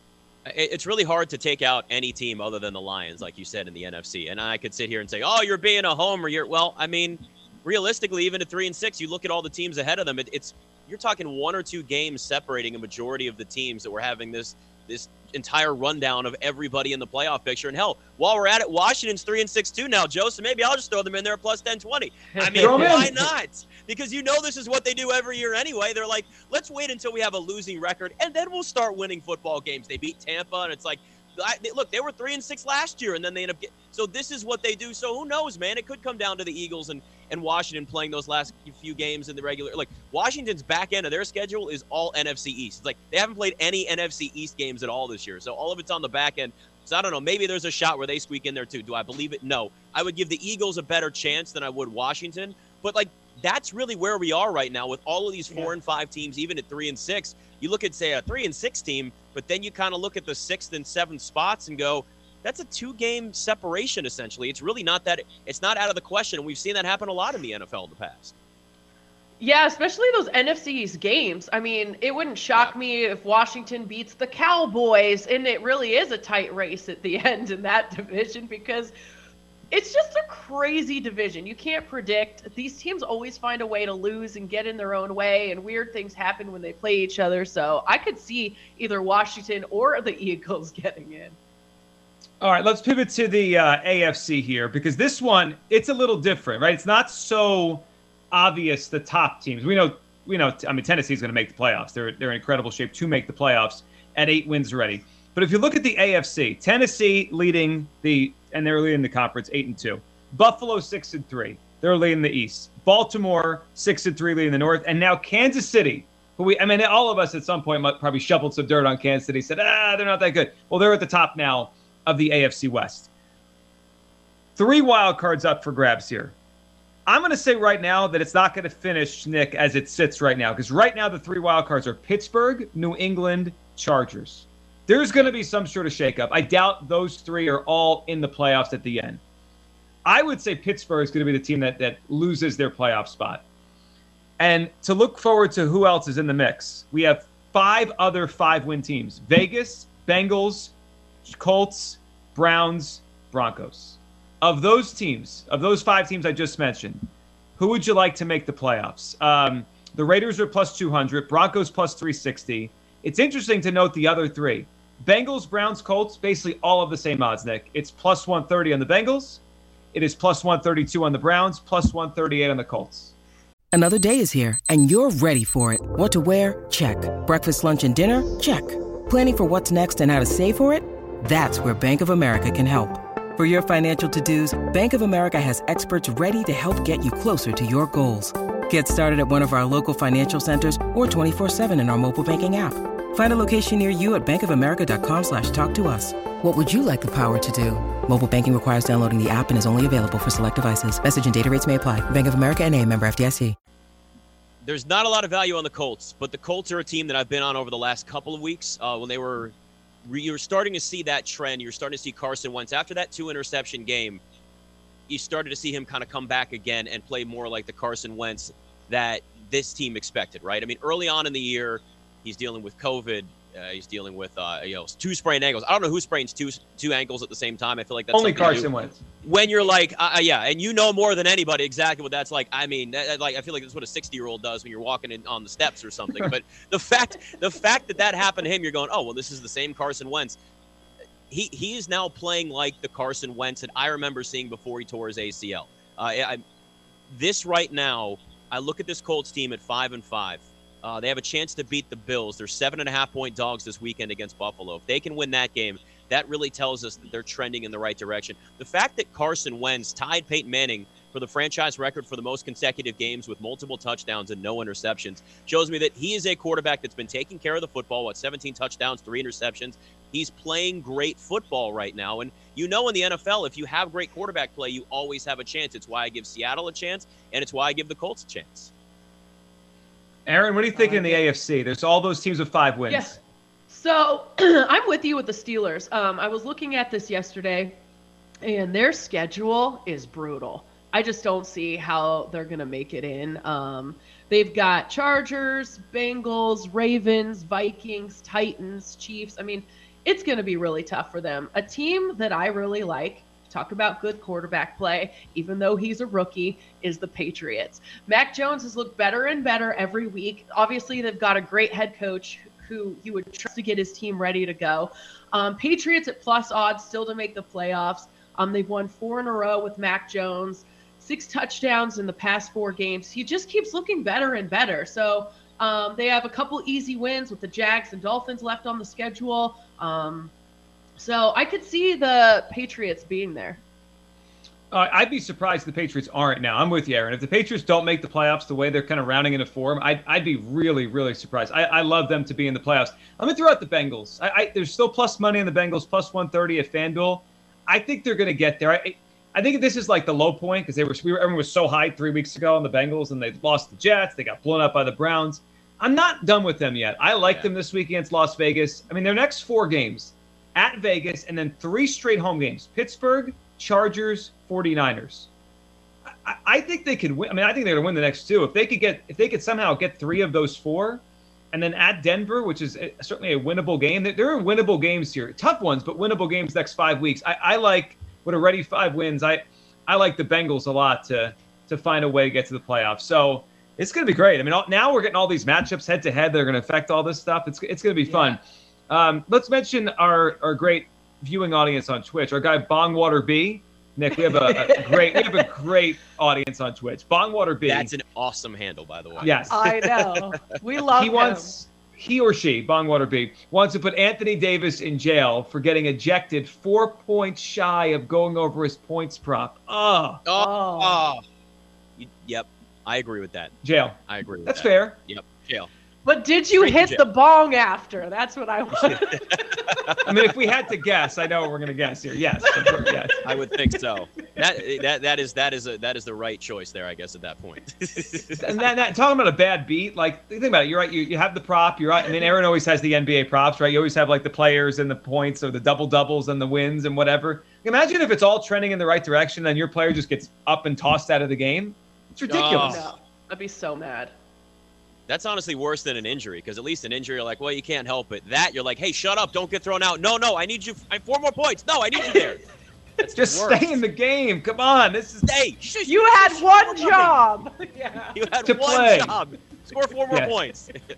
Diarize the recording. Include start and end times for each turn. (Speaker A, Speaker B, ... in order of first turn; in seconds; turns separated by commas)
Speaker A: 0.5-68.3, Speaker B: 22.4-23.1, Speaker C: 22.5-23.2, Speaker B: 69.4-78.9, Speaker B: 79.7-91.4, Speaker C: 92.4-123.1, Speaker C: 124.6-126.4, Speaker C: 127.1-139.2, Speaker C: 140.1-143.4, Speaker C: 144.4-150.7, Speaker C: 151.3-157.1, Speaker C: 157.6-169.4, Speaker C: 169.9-173.1, Speaker D: 173.7-203.6, Speaker A: 204.6-209.5, Speaker A: 210.1-214.2, Speaker A: 215.1-228.7, Speaker C: 228.1-229.0, Speaker A: 229.2-240.4, Speaker A: 241.3-246.4, Speaker A: 247.1-278.7, Speaker C: 280.3-283.2, Speaker B: 280.7-281.2, Speaker B: 282.9-283.2, Speaker B: 283.7-287.8, Speaker B: 288.4-330.3, Speaker B: 331.0-333.6, Speaker C: 334.7-365.3, Speaker A: 357.2-357.5, Speaker C: 366.2-397.9, Speaker B: 388.1-388.4, Speaker B: 394.3-395.4, Speaker A: 397.7-399.4, Speaker C: 399.2-399.6, Speaker B: 399.5-401.5, Speaker C: 400.9-410.2, Speaker A: 410.2-411.2, Speaker B: 410.4-411.0, Speaker A: 412.0-413.5, Speaker C: 413.6-415.0, Speaker A: 414.1-415.7, Speaker B: 416.1-419.6, Speaker A: 416.5-417.0, Speaker A: 418.8-420.0, Speaker C: 420.1-423.2, Speaker B: 422.5-423.0, Speaker A: 423.2-428.6, Speaker C: 428.4-442.9, Speaker A: 442.3-442.9, Speaker B: 442.4-444.1, Speaker A: 445.1-452.4, Speaker A: 453.0-453.8, Speaker C: 453.2-455.3, Speaker A: 455.2-457.2, Speaker B: 455.9-458.2, Speaker A: 458.1-460.8, Speaker C: 458.4-459.2, Speaker C: 460.1-460.4